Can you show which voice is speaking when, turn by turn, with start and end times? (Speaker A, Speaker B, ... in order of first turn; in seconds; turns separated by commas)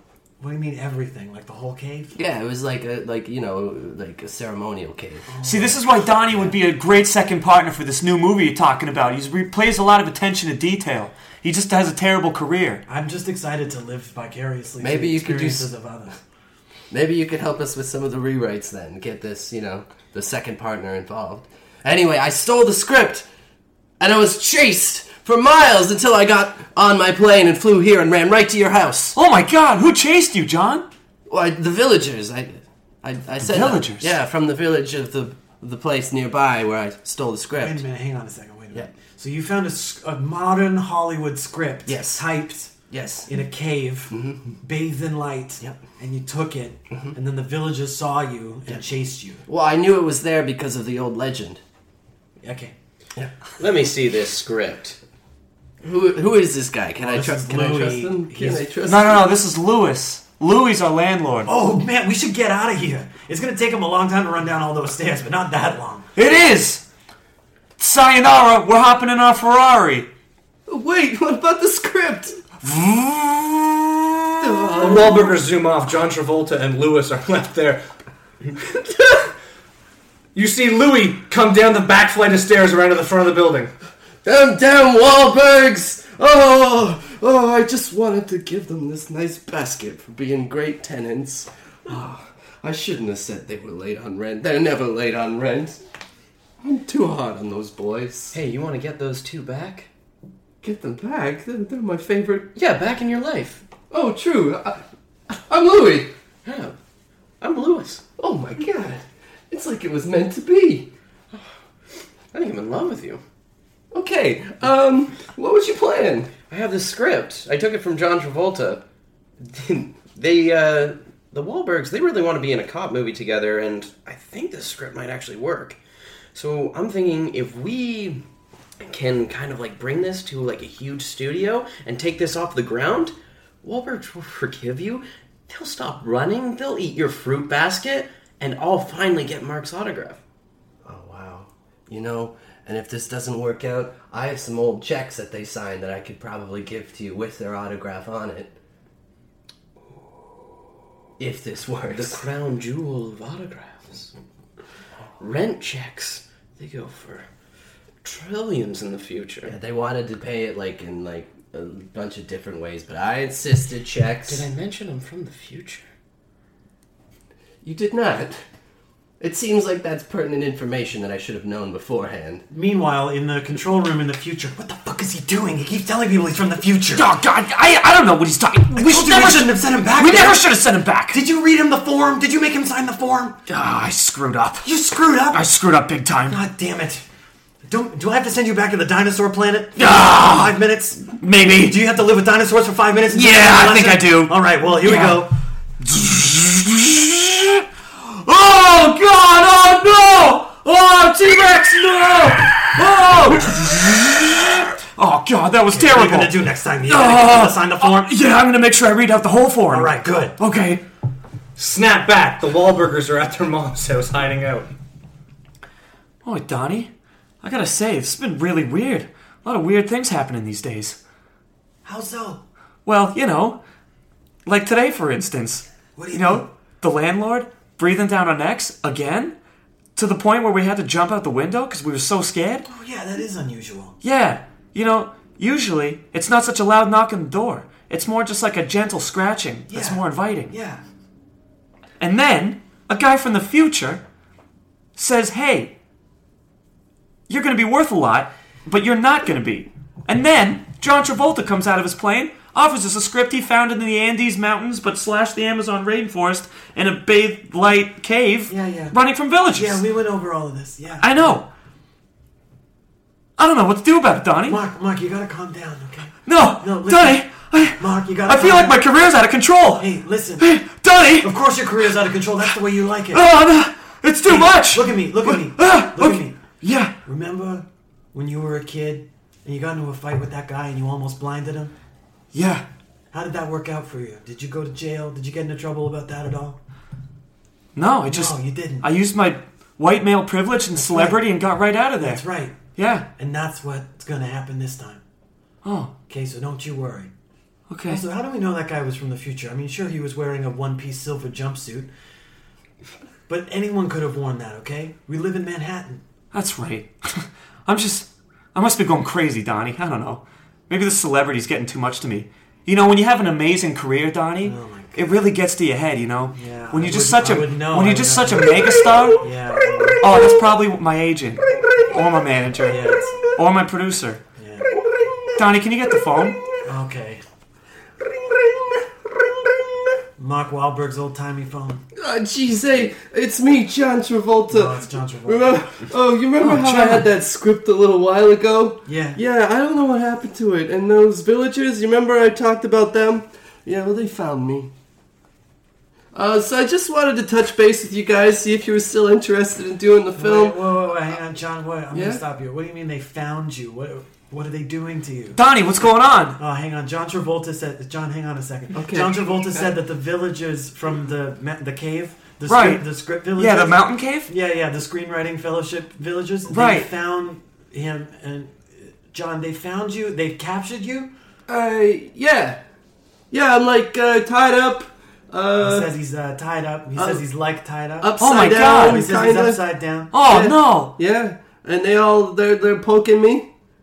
Speaker A: 0.4-2.1, Speaker B: 2.1-5.3, Speaker A: 5.3-6.0, Speaker C: 5.4-12.8, Speaker B: 6.3-6.5, Speaker A: 12.9-16.1, Speaker B: 14.8-15.7, Speaker B: 16.9-23.2, Speaker B: 24.0-29.2, Speaker C: 29.1-30.9, Speaker B: 31.3-37.8, Speaker C: 33.4-34.1, Speaker A: 37.5-42.7, Speaker B: 41.9-42.2, Speaker B: 42.9-43.3, Speaker A: 43.2-49.4, Speaker B: 44.1-44.4, Speaker B: 49.5-51.6, Speaker A: 52.4-52.7, Speaker D: 53.6-55.0, Speaker B: 55.8-59.3, Speaker A: 57.0-58.7, Speaker C: 58.9-61.5, Speaker A: 61.5-66.1, Speaker C: 66.2-66.8, Speaker C: 67.8-70.1, Speaker B: 70.7-72.4, Speaker C: 72.6-74.6, Speaker B: 74.4-75.3, Speaker E: 74.8-77.8, Speaker E: 80.3-83.7, Speaker B: 84.2-95.8, Speaker B: 96.6-98.4, Speaker D: 98.3-99.9, Speaker B: 100.6-102.5, Speaker D: 102.5-103.6, Speaker B: 103.9-106.1, Speaker D: 106.4-106.8, Speaker D: 107.4-108.0, Speaker B: 108.2-110.9, Speaker D: 112.3-113.2, Speaker B: 113.9-116.3, Speaker D: 116.5-118.8, Speaker D: 119.4-125.8, Speaker D: 126.3-128.2, Speaker D: 128.8-140.2, Speaker B: 140.8-148.6, Speaker B: 151.2-152.2, Speaker D: 151.9-154.1, Speaker D: 155.2-157.3, Speaker D: 158.0-159.5, Speaker B: 159.4-164.5, Speaker D: 164.3-165.8, Speaker B: 167.6-168.4, Speaker B: 169.2-172.4, Speaker A: 172.5-177.1, Speaker C: 176.9-181.2, Speaker A: 178.7-180.5, Speaker A: 181.1-183.4, Speaker C: 183.5-184.7, Speaker A: 184.6-185.5, Speaker C: 185.3-186.4, Speaker A: 186.3-187.0, Speaker A: 187.7-191.1, Speaker C: 189.8-191.7, Speaker A: 191.6-195.3, Speaker C: 193.1-195.2, Speaker C: 195.8-210.8, Speaker A: 205.7-208.1, Speaker A: 209.7-210.4, Speaker E: 211.6-214.7, Speaker C: 216.2-216.9, Speaker C: 217.4-221.0, Speaker A: 221.8-222.4, Speaker C: 222.8-223.6, Speaker C: 224.4-229.3, Speaker A: 225.9-226.4, Speaker C: 229.9-232.7, Speaker A: 232.7-234.0, Speaker C: 234.0-240.5, Speaker A: 239.7-240.8, Speaker C: 242.0-244.0, Speaker C: 244.9-245.7, Speaker C: 247.3-259.8, Speaker A: 258.5-259.0, Speaker A: 259.5-261.4, Speaker C: 261.0-261.5, Speaker C: 263.4-264.6, Speaker A: 264.5-268.8, Speaker C: 266.2-271.4, Speaker A: 269.8-270.5, Speaker A: 271.2-273.2, Speaker C: 273.1-276.9, Speaker A: 274.2-276.4, Speaker A: 277.0-281.7, Speaker C: 282.3-282.6, Speaker A: 283.1-286.6, Speaker C: 287.7-292.2, Speaker A: 288.1-288.9, Speaker A: 290.7-291.3, Speaker A: 292.0-292.6, Speaker C: 292.7-293.1, Speaker A: 293.2-295.0, Speaker C: 295.6-295.9, Speaker A: 296.1-297.1, Speaker C: 297.7-298.0, Speaker A: 297.9-301.9, Speaker A: 303.3-306.0, Speaker C: 306.3-319.3, Speaker A: 314.4-315.2, Speaker A: 316.3-320.0, Speaker B: 318.5-320.5, Speaker C: 320.0-324.2, Speaker B: 321.4-323.3, Speaker A: 322.7-323.2, Speaker A: 324.4-324.7, Speaker B: 324.6-326.6, Speaker C: 325.4-326.4, Speaker A: 326.6-327.2, Speaker B: 328.0-330.0, Speaker A: 330.2-331.8, Speaker B: 331.9-344.7, Speaker A: 334.5-335.6, Speaker C: 336.4-337.1, Speaker A: 338.9-339.2, Speaker B: 346.1-350.7, Speaker A: 350.2-355.4, Speaker B: 351.9-352.2, Speaker C: 355.3-356.4, Speaker A: 356.4-371.1, Speaker B: 358.7-359.7, Speaker C: 362.4-364.3, Speaker C: 366.5-366.9, Speaker B: 371.5-372.6, Speaker B: 373.3-375.9, Speaker A: 375.6-380.1, Speaker B: 376.9-377.2, Speaker B: 378.0-379.6, Speaker C: 378.2-379.0, Speaker C: 380.1-380.9, Speaker B: 380.2-383.5